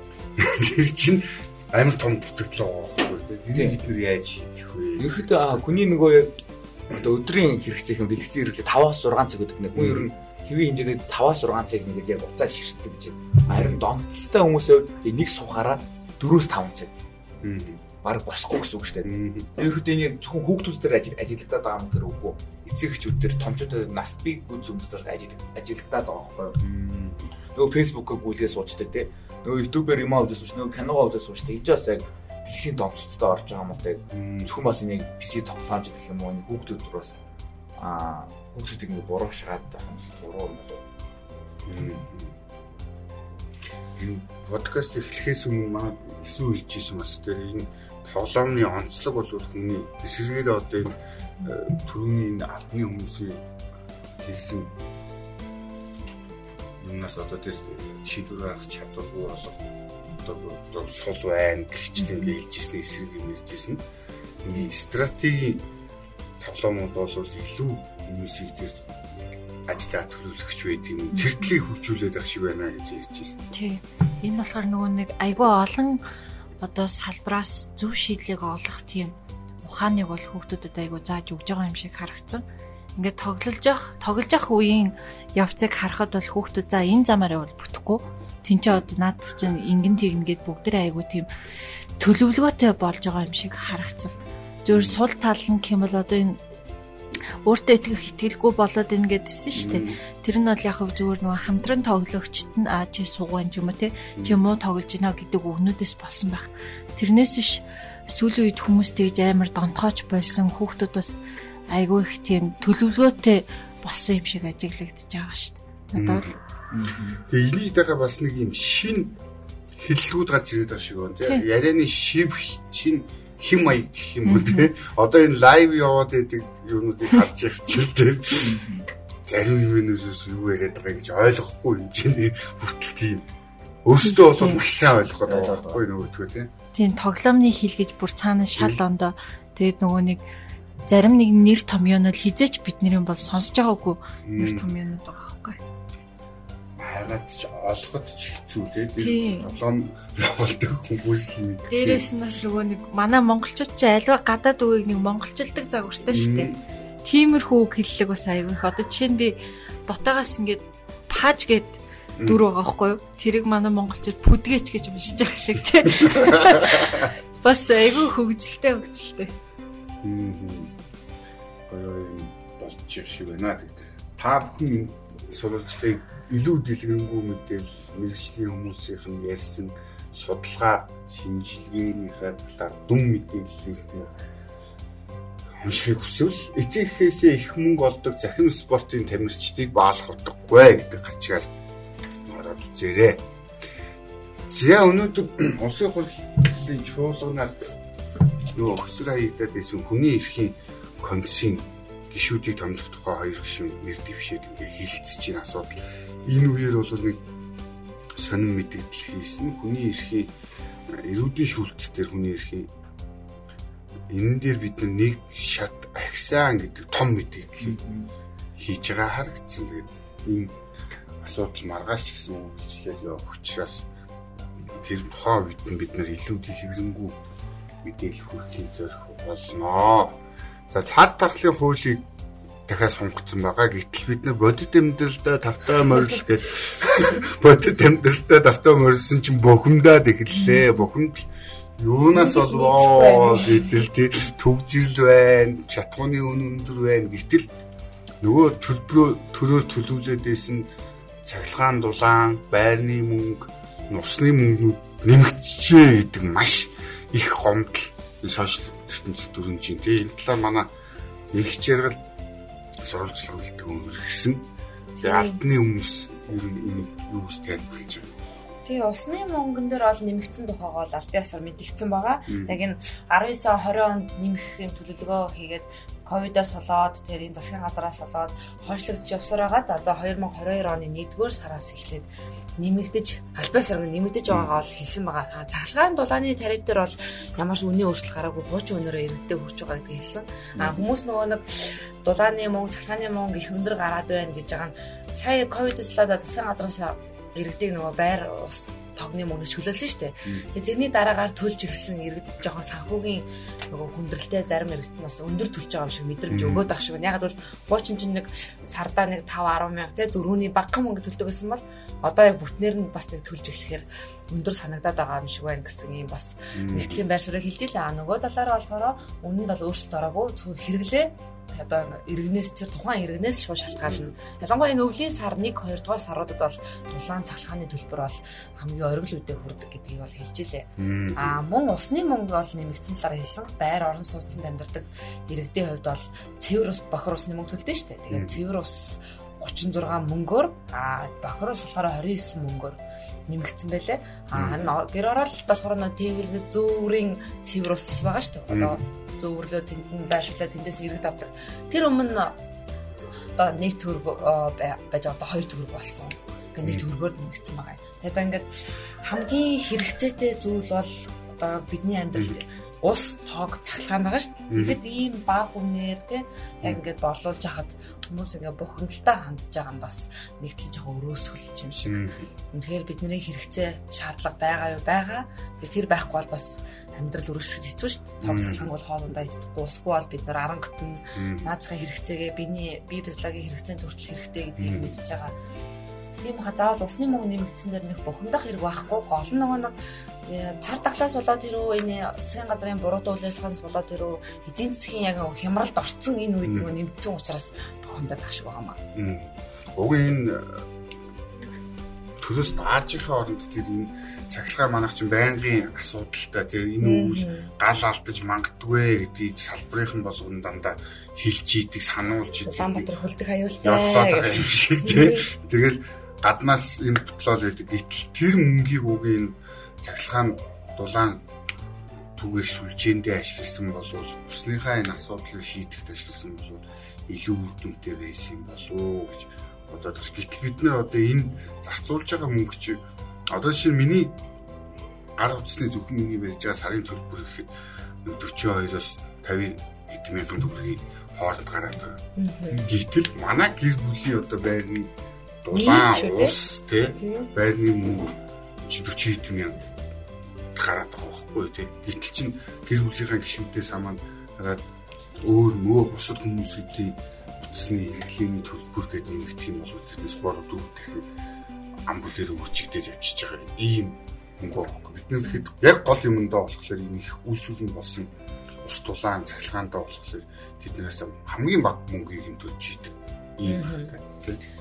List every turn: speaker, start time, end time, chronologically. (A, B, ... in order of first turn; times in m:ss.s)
0:00.4-0:05.6 A
0:05.0-0:06.4 B
0:06.9-0:16.9 B
0:09.8-0:10.1 A
0:13.5-0:13.8 A
0:17.4-0:17.8 A
0:18.0-0:26.6 B
0:19.0-0:19.5 A
0:26.6-0:27.3 A
0:27.5-0:37.2 B
0:34.1-0:34.5 A
0:37.8-0:40.8 B
0:41.6-0:42.4 A
0:44.0-0:53.4 A
0:54.2-0:54.7 A
0:56.8-1:03.8 A
1:04.4-1:05.7 A
1:06.4-1:08.9 A
1:09.6-1:13.4 A
1:11.1-1:11.6 C
1:13.5-1:16.0 C
1:16.6-1:22.4 C
1:23.0-1:31.3 C
1:32.0-1:36.4 C
1:34.7-1:35.0 A
1:37.4-1:56.4 C
1:39.5-1:40.0 A
1:44.2-1:44.4 A
1:55.9-1:56.4 A
1:56.7-1:57.2 B
1:57.2-1:59.2 A
1:59.7-2:08.7 A
2:04.2-2:04.7 C
2:08.3-2:08.8 B
2:09.2-2:13.3 A
2:13.8-2:16.5 A
2:14.0-2:14.6 C
2:15.2-2:15.8 B
2:16.7-2:20.2 C
2:18.6-2:18.8 A
2:20.9-2:25.6 C
2:24.2-2:24.7 A
2:26.8-2:32.1 A
2:29.0-2:29.5 C
2:31.7-2:36.5 C
2:36.1-2:36.6 A
2:37.0-2:49.3 C
2:42.2-2:42.4 A
2:45.9-2:47.1 A
2:50.0-2:50.8 A
2:51.7-3:04.2 A
3:05.6-3:11.5 A
3:12.2-3:13.2 A
3:14.5-3:17.7 A
3:18.5-3:27.2 A
3:28.1-3:30.3 A
3:30.9-3:32.7 A
3:34.1-3:37.8 A
3:37.6-3:38.1 B
3:38.6-3:40.6 A
3:41.2-3:43.9 A
3:44.6-3:47.2 A
3:47.8-3:50.2 A
3:50.7-3:52.1 A
3:52.7-4:07.5 A
4:00.4-4:00.7 C
4:02.1-4:03.8 D
4:08.2-4:10.7 A
4:11.2-4:20.7 A
4:21.3-4:22.0 A
4:22.8-4:24.4 A
4:25.0-4:25.4 D
4:25.0-4:28.2 A
4:28.6-4:42.1 D
4:32.3-4:32.6 A
4:42.6-5:52.4 D
4:50.6-4:50.9 A
5:06.3-5:06.7 A
5:16.5-5:17.0 A
5:23.8-5:24.1 A
5:30.8-5:31.4 A
5:38.1-5:38.4 A
5:44.3-5:44.8 A
5:48.5-5:48.8 A
5:53.4-5:58.5 D
5:59.0-6:25.4 D
6:04.5-6:04.8 A
6:11.8-6:12.3 A
6:18.2-6:18.7 A
6:21.2-6:21.5 A
6:24.6-6:24.9 A
6:26.2-6:29.7 D
6:30.2-6:38.8 D
6:36.4-6:36.7 A
6:38.9-6:40.7 A
6:42.2-6:52.9 A
6:46.8-6:47.5 D
6:52.4-6:55.2 D
6:53.6-7:01.2 A
7:02.1-7:14.2 A
7:15.2-7:17.5 A
7:18.0-7:22.0 A
7:22.2-7:22.7 D
7:22.5-7:29.7 A
7:25.5-7:26.4 D
7:27.0-7:27.3 D
7:30.5-7:34.6 A
7:35.2-7:41.1 A
7:41.9-7:48.1 A
7:48.6-7:54.4 A
7:53.4-7:53.9 D